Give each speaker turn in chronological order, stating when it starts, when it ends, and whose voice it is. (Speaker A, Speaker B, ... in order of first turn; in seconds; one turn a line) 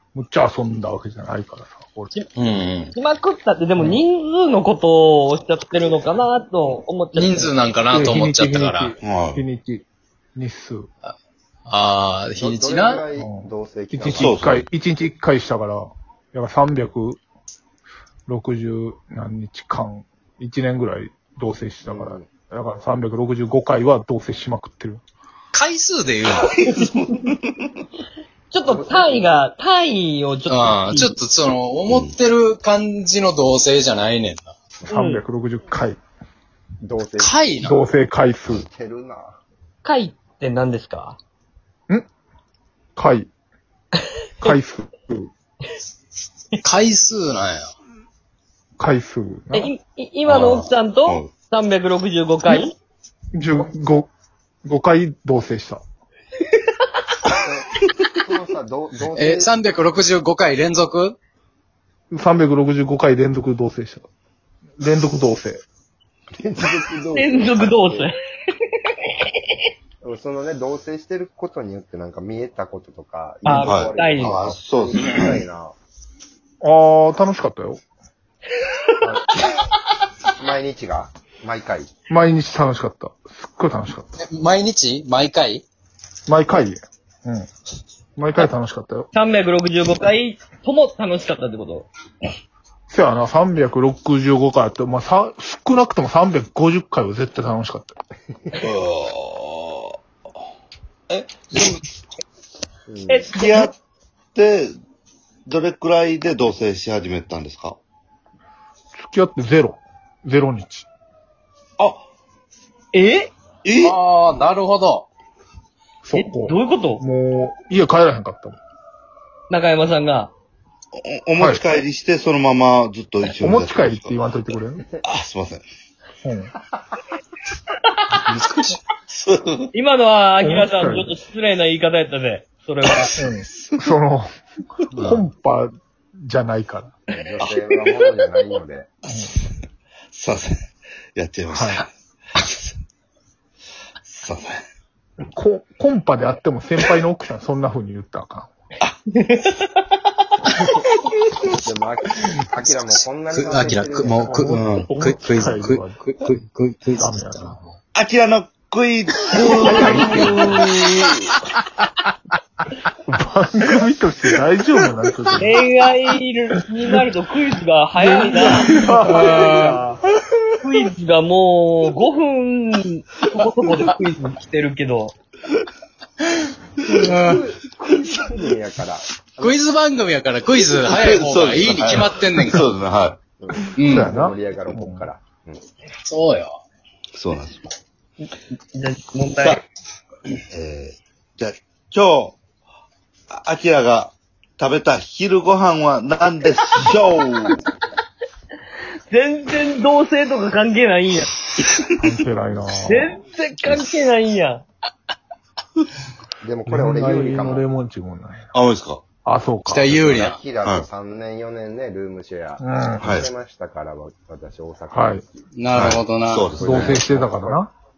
Speaker A: 0.1-2.1
Speaker B: 2.4-2.9
Speaker C: 2.9-7.5
Speaker B: 7.1-8.9
Speaker A: 7.9-10.9
Speaker D: 9.0-9.4
Speaker B: 11.7-13.0
Speaker E: 12.4-14.3
Speaker A: 13.1-17.2
Speaker D: 14.2-14.7
Speaker A: 18.3-25.0
Speaker E: 21.8-22.3
Speaker B: 25.5-26.5
Speaker D: 26.4-27.8
Speaker C: 26.7-27.3
Speaker C: 28.5-31.1
Speaker E: 28.6-29.4
Speaker B: 30.5-34.5
Speaker D: 31.9-32.1
Speaker A: 34.9-36.0
Speaker C: 34.9-35.2
Speaker E: 36.8-37.4
Speaker B: 37.2-37.8
Speaker A: 37.6-38.6
Speaker E: 38.5-39.4
Speaker C: 39.8-41.2
Speaker A: 43.0-43.3
Speaker A: 44.4-45.3
Speaker B: 46.6-47.7
Speaker A: 48.8-49.7
Speaker C: 49.5-52.7
Speaker D: 50.2-51.3
Speaker A: 53.3-54.1
Speaker A: 54.6-55.8
Speaker E: 57.4-59.5
Speaker B: 59.1-61.2
Speaker A: 62.1-64.0
Speaker A: 64.8-65.6
Speaker E: 66.4-68.1
Speaker C: 67.1-69.7
Speaker E: 70.0-75.7
Speaker C: 73.4-74.4
Speaker D: 73.6-75.2
Speaker B: 74.2-74.5
Speaker A: 76.6-77.8
Speaker C: 78.5-79.1
Speaker E: 80.4-81.9
Speaker A: 82.1-84.0
Speaker B: 84.2-85.6
Speaker A: 86.3-87.5
Speaker A: 88.2-89.1
Speaker C: 89.1-91.9
Speaker A: 92.9-98.0
Speaker D: 98.6-100.0
Speaker D: 101.1-101.8
Speaker E: 102.9-103.2
Speaker C: 103.1-103.7
Speaker D: 103.2-103.7
Speaker D: 104.3-104.7
Speaker D: 105.5-107.8
Speaker A: 108.9-110.9
Speaker C: 112.9-113.3
Speaker D: 113.6-114.0
Speaker B: 113.8-115.1
Speaker A: 116.0-118.6
Speaker C: 116.1-117.0
Speaker C: 119.5-120.3
Speaker D: 120.9-124.2
Speaker A: 121.4-121.8
Speaker A: 123.3-124.9
Speaker D: 125.0-125.6
Speaker A: 126.2-126.5
Speaker B: 128.1-128.8
Speaker D: 129.1-129.7
Speaker C: 129.7-133.2
Speaker A: 130.4-131.1
Speaker A: 133.2-134.3
Speaker D: 133.6-133.9
Speaker B: 134.9-135.2
Speaker A: 134.9-136.9
Speaker E: 137.1-138.9
Speaker C: 137.7-138.1
Speaker A: 139.1-139.3
Speaker D: 140.1-140.6
Speaker D: 141.1-141.9
Speaker A: 141.5-141.8
Speaker D: 142.4-142.7
Speaker D: 144.1-144.6
Speaker A: 145.2-148.5
Speaker C: 149.1-151.3
Speaker E: 151.5-154.6
Speaker B: 152.7-157.6
Speaker A: 154.2-156.0
Speaker A: 156.9-157.6
Speaker D: 157.9-161.2
Speaker B: 159.4-160.5
Speaker A: 159.5-160.7
Speaker C: 159.8-160.3
Speaker A: 163.1-165.6
Speaker C: 165.4-170.0
Speaker A: 168.0-169.7
Speaker B: 169.1-169.8
Speaker C: 170.6-175.1
Speaker E: 176.8-179.6
Speaker B: 177.1-177.4
Speaker B: 179.4-182.7
Speaker D: 180.8-183.2
Speaker E: 183.4-185.6
Speaker B: 183.8-184.1
Speaker A: 183.8-185.1
Speaker B: 186.0-186.6
Speaker D: 187.1-187.7
Speaker C: 188.2-189.6
Speaker D: 189.3-189.6
Speaker D: 190.5-192.4
Speaker D: 193.3-197.6
Speaker C: 199.1-201.3
Speaker D: 201.6-202.1
Speaker A: 202.0-203.2
Speaker C: 202.8-204.6
Speaker E: 206.4-207.6
Speaker A: 206.6-208.5
Speaker D: 208.5-209.0
Speaker A: 209.2-209.9
Speaker B: 209.7-210.4
Speaker E: 209.8-215.2
Speaker D: 210.6-210.9
Speaker A: 212.6-213.2
Speaker D: 213.0-213.3
Speaker A: 214.9-215.2
Speaker B: 215.6-216.5
Speaker D: 215.7-217.0
Speaker E: 216.5-217.6
Speaker A: 216.6-217.7